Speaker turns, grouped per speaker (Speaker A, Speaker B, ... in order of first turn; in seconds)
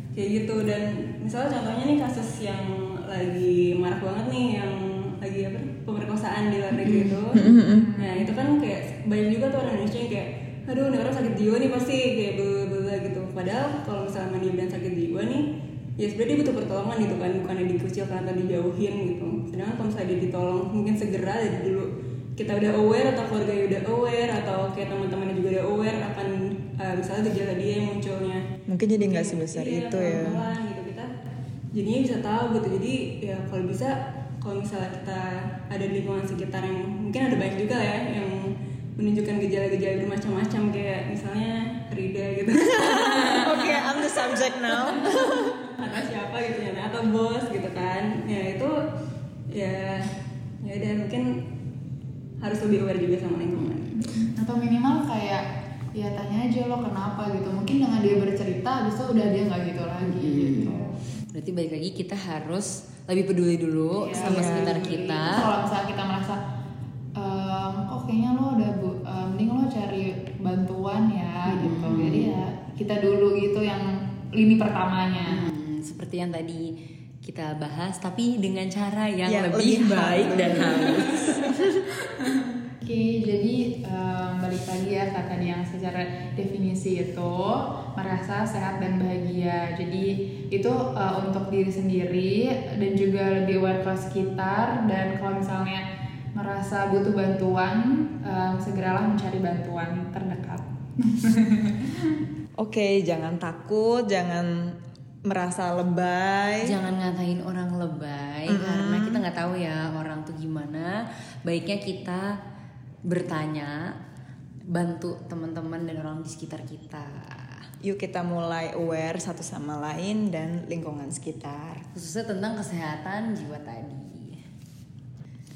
Speaker A: 0.1-7.4, 8.0-15.4, 16.0-28.4, 29.0-31.1, 31.7-48.7, 49.5-50.1, 50.6-51.3, 52.4-54.0
Speaker B: 6.8-7.2, 60.0-65.5, 71.5-72.3, 75.3-76.7, 77.2-81.5, 106.6-112.3, 113.1-113.8, 114.7-117.6, 121.9-124.4
Speaker C: 7.3-7.9, 28.7-30.5, 42.8-45.7, 64.2-64.8, 79.3-81.8, 102.6-104.5, 105.3-106.7, 108.5-109.2, 117.8-121.8
Speaker D: 7.5-8.3, 54.2-55.4, 56.0-61.0, 64.0-66.4, 67.2-75.5, 82.8-95.8, 96.4-102.2